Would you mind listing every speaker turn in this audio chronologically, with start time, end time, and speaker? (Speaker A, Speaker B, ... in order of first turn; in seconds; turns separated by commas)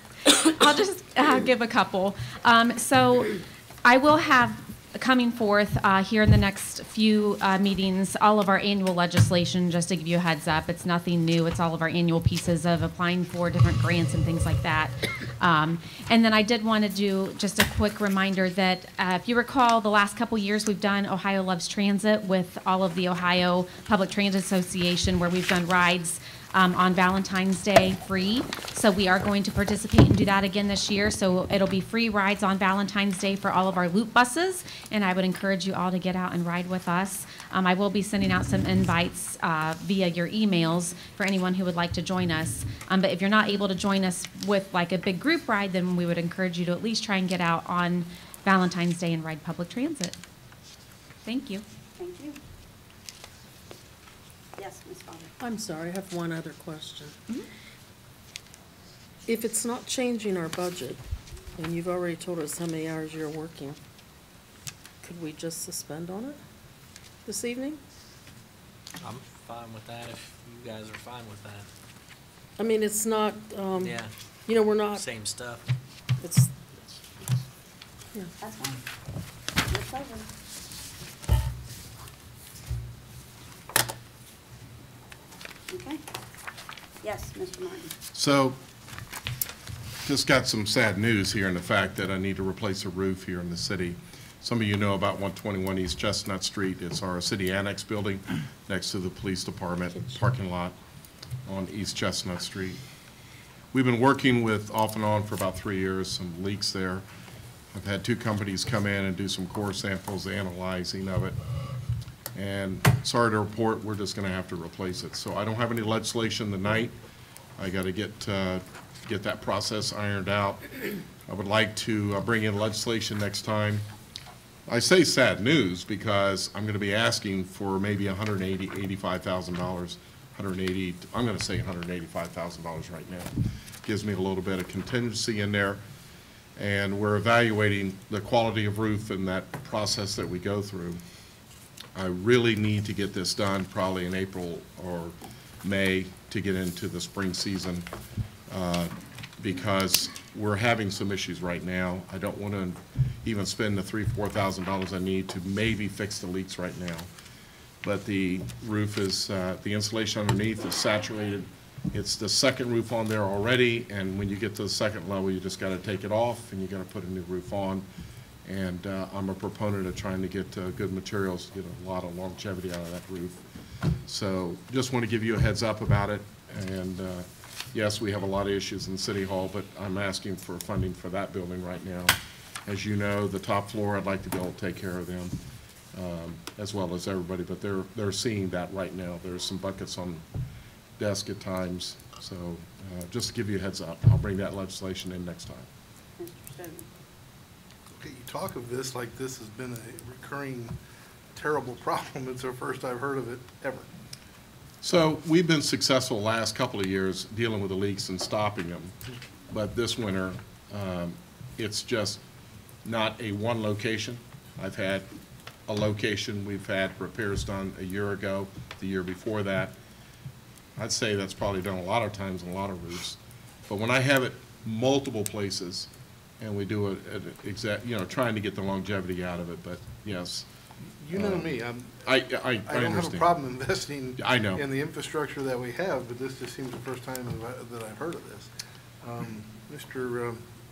Speaker A: 0.5-50.1, Speaker A: 51.2-51.6, Speaker B: 52.0-52.4, Speaker B: 54.6-55.3, Speaker C: 55.4-57.2, Speaker C: 59.2-61.0, Speaker C: 61.5-63.8, Speaker C: 65.0-66.4, Speaker C: 67.2-67.8, Speaker D: 69.0-71.7, Speaker C: 72.6-75.0, Speaker D: 73.8-74.1, Speaker D: 75.0-75.6, Speaker C: 76.2-76.5, Speaker B: 78.4-78.8, Speaker B: 79.7-80.3, Speaker B: 85.7-86.0, Speaker B: 87.0-87.9, Speaker E: 88.1-88.6, Speaker E: 90.0-100.8, Speaker C: 99.9-100.2, Speaker E: 101.5-102.8, Speaker E: 103.7-107.0, Speaker E: 107.7-111.4, Speaker E: 112.3-116.9, Speaker E: 117.6-120.6, Speaker E: 121.3-123.8, Speaker E: 124.7-133.3, Speaker E: 133.8-135.8, Speaker E: 136.6-141.0, Speaker E: 141.9-147.8, Speaker E: 148.5-157.1, Speaker E: 157.8-167.8, Speaker E: 168.4-173.4, Speaker E: 174.1-182.1, Speaker E: 182.7-185.4, Speaker E: 185.9-190.2, Speaker E: 191.0-195.7, Speaker B: 196.2-196.9, Speaker F: 197.9-200.8, Speaker F: 201.3-203.8, Speaker E: 204.8-208.9, Speaker E: 209.5-212.2, Speaker E: 212.8-215.1, Speaker E: 215.7-219.7, Speaker E: 220.8-230.4, Speaker F: 231.0-232.0, Speaker E: 231.1-233.3, Speaker F: 232.7-238.5, Speaker E: 234.2-234.6, Speaker F: 239.0-240.4